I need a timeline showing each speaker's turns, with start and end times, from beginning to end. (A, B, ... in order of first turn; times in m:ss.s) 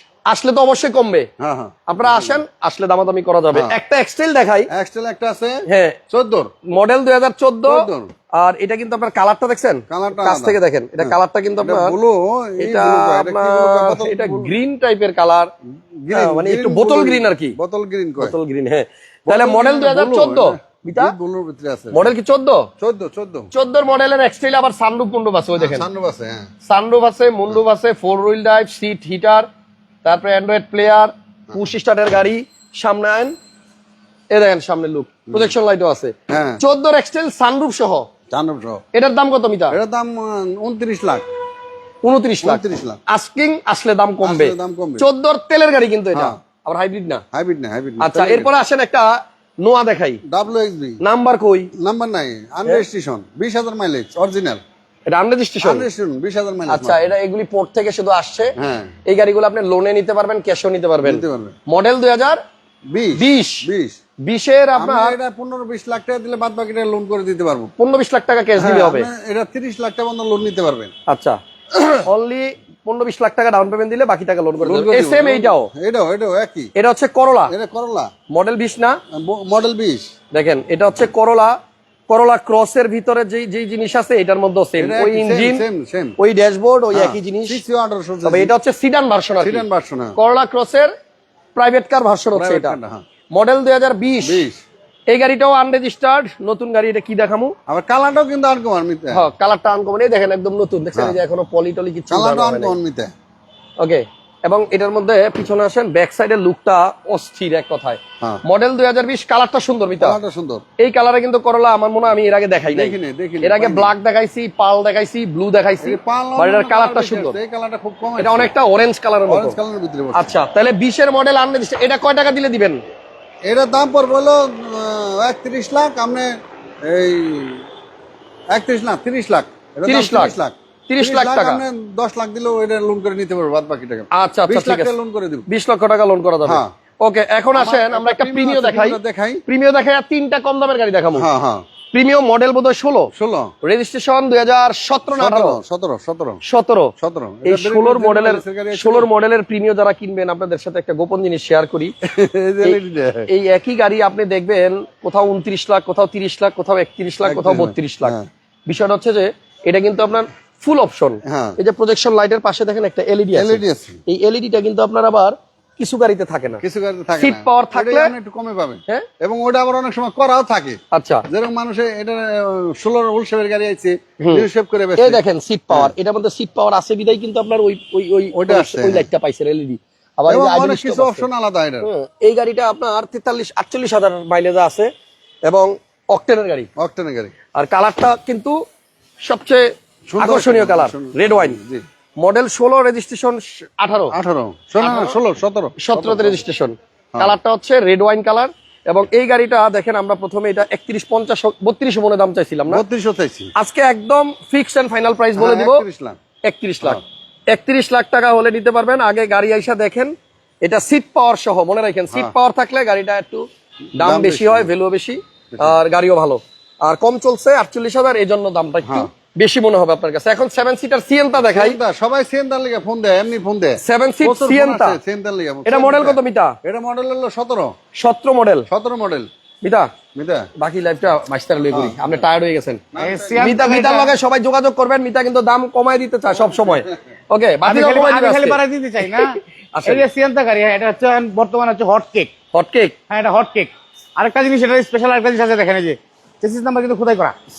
0:00.3-0:01.3 A
0:01.4-0:02.4 B
0:01.9-0:04.7 A
0:04.7-0:06.5 B
0:05.7-0:06.0 A
0:06.7-0:12.0 A
0:07.6-0:08.1 B
0:09.9-0:14.5 B
0:12.6-0:15.5 A
0:16.0-0:18.4 B
0:16.1-0:17.6 A
0:18.2-0:21.1 A
0:19.3-0:22.1 B
0:21.9-0:22.6 A
0:22.8-0:23.5 B
0:23.5-0:25.9 A
0:25.6-0:26.4 B
0:26.6-0:29.5 A
0:30.0-0:33.3 A
0:34.3-0:38.1 A
0:36.3-0:36.6 B
0:38.3-0:38.8 B
0:38.9-0:39.8 A
0:39.7-0:41.2 B
0:42.0-0:47.2 A
0:42.4-0:43.0 B
0:44.2-0:45.0 B
0:47.3-0:48.5 B
0:48.0-0:49.1 A
0:49.6-0:50.2 A
0:50.3-0:51.0 B
0:51.0-0:51.7 A
0:51.8-0:54.6 B
0:55.1-0:55.8 A
0:55.6-0:57.0 B
0:56.7-0:58.5 A
0:58.6-0:58.9 B
0:59.0-1:02.4 A
1:01.0-1:01.5 B
1:02.9-1:04.0 B
1:03.2-1:03.6 A
1:04.2-1:05.2 A
1:04.8-1:07.7 B
1:07.8-1:09.1 A
1:08.6-1:10.9 B
1:11.1-1:15.7 A
1:14.6-1:16.7 B
1:16.8-1:17.5 A
1:17.5-1:18.1 B
1:18.3-1:19.0 A
1:19.1-1:20.1 B
1:20.3-1:21.6 A
1:22.1-1:25.6 A
1:24.8-1:26.2 B
1:26.2-1:27.6 A
1:26.9-1:28.5 B
1:28.2-1:29.6 A
1:29.4-1:30.1 B
1:30.2-1:30.9 A
1:31.5-1:32.8 A
1:32.3-1:33.0 B
1:33.3-1:34.4 A
1:34.2-1:34.6 B
1:35.1-1:37.5 A
1:37.7-1:39.2 B
1:39.1-1:42.8 A
1:40.9-1:41.2 B
1:42.1-1:43.1 B
1:43.8-1:50.2 A
1:50.0-1:50.6 B
1:50.8-1:57.4 A
1:52.7-1:53.9 B
1:55.8-1:58.5 B
1:58.2-1:59.6 A
1:59.3-2:00.3 B
2:00.1-2:02.8 A
2:03.4-2:06.3 B
2:06.9-2:07.6 B
2:08.5-2:15.4 B
2:09.8-2:10.4 A
2:10.9-2:11.6 A
2:14.1-2:14.9 A
2:15.5-2:21.3 A
2:16.4-2:16.7 B
2:17.5-2:19.4 B
2:21.1-2:21.6 B
2:21.9-2:23.1 A
2:23.1-2:23.5 B
2:23.6-2:25.6 A
2:25.1-2:26.4 B
2:26.4-2:26.9 A
2:27.0-2:29.1 B
2:27.4-2:31.9 A
2:32.1-2:33.3 B
2:32.6-2:38.2 A
2:37.2-2:38.3 B
2:38.7-2:46.6 A
2:41.3-2:41.6 B
2:43.3-2:44.0 B
2:46.6-2:50.8 B
2:47.2-2:48.1 A
2:50.9-2:51.2 A
2:51.3-2:55.9 B
2:54.2-2:54.4 A
2:55.0-3:01.3 A
2:58.3-2:59.1 B
3:00.3-3:01.9 B
3:01.8-3:04.9 A
3:05.4-3:06.7 A
3:06.8-3:07.3 B
3:07.5-3:08.6 A
3:09.2-3:11.6 A
3:10.1-3:11.8 B
3:12.2-3:14.1 A
3:14.1-3:16.4 B
3:14.8-3:15.2 A
3:15.8-3:22.8 A
3:22.7-3:23.5 B
3:23.6-3:25.8 A
3:25.4-3:26.2 B
3:26.4-3:33.4 A
3:34.0-3:41.8 A
3:34.0-3:34.7 B
3:41.4-3:47.7 B
3:43.8-3:45.0 A
3:45.6-3:46.5 A
3:48.0-3:48.6 A
3:48.7-3:49.3 B
3:49.6-3:49.9 A
3:50.1-3:50.5 B
3:50.6-3:52.8 A
3:51.7-3:52.0 B
3:52.9-3:53.6 B
3:53.0-3:54.1 C
3:53.4-4:00.0 A
3:57.6-3:59.3 C
3:59.8-4:02.3 C
4:02.5-4:03.0 A
4:03.1-4:07.3 C